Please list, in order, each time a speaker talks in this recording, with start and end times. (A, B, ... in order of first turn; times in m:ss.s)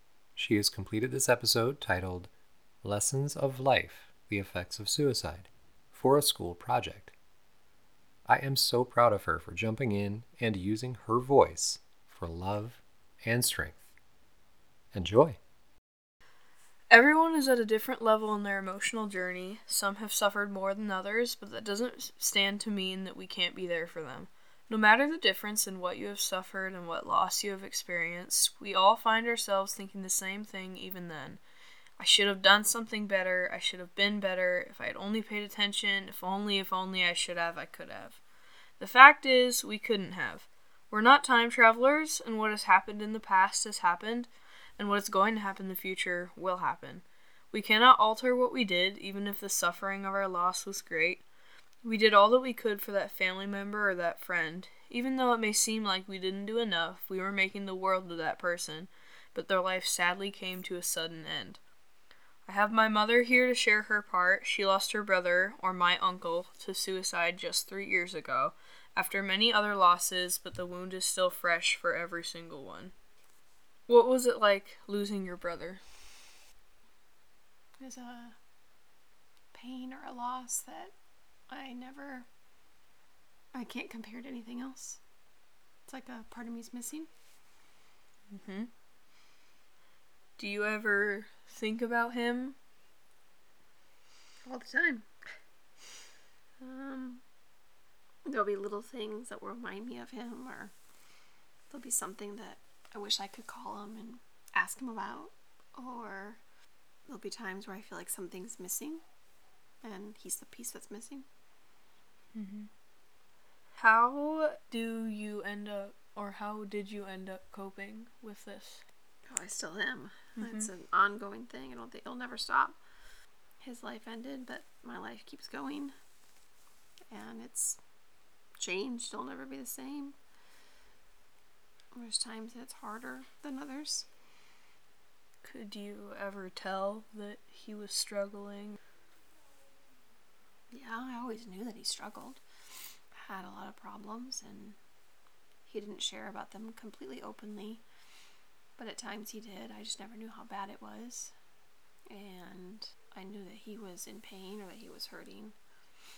0:00.4-0:02.3 A
0:02.8-0:07.1 A
0:08.2-0:13.8 A
0:14.9-0:15.4 A
0:16.9-0:31.4 B
0:32.0-0:38.2 B
0:38.8-0:51.2 B
0:51.8-1:01.6 B
1:02.4-1:12.9 B
1:13.9-1:15.8 B
1:17.8-1:18.4 C
1:19.5-1:20.9 C
1:21.5-1:22.3 C
1:23.5-1:25.0 C
1:25.9-1:27.1 C
1:28.3-1:28.7 B
1:30.4-1:32.6 B
1:34.4-1:35.1 C
1:36.6-1:37.2 C
1:38.2-1:40.7 C
1:41.7-1:46.4 C
1:47.1-1:49.0 C
1:49.8-1:51.2 C
1:52.3-1:52.7 B
1:53.8-1:58.8 B
1:59.3-2:02.8 C
2:00.4-2:00.7 B
2:03.6-2:05.9 C
2:07.1-2:07.8 C
2:08.6-2:10.2 C
2:11.9-2:14.1 C
2:15.4-2:18.8 B
2:20.7-2:22.4 C
2:23.1-2:24.8 C
2:25.6-2:27.8 C
2:28.8-2:31.4 C
2:32.1-2:35.6 C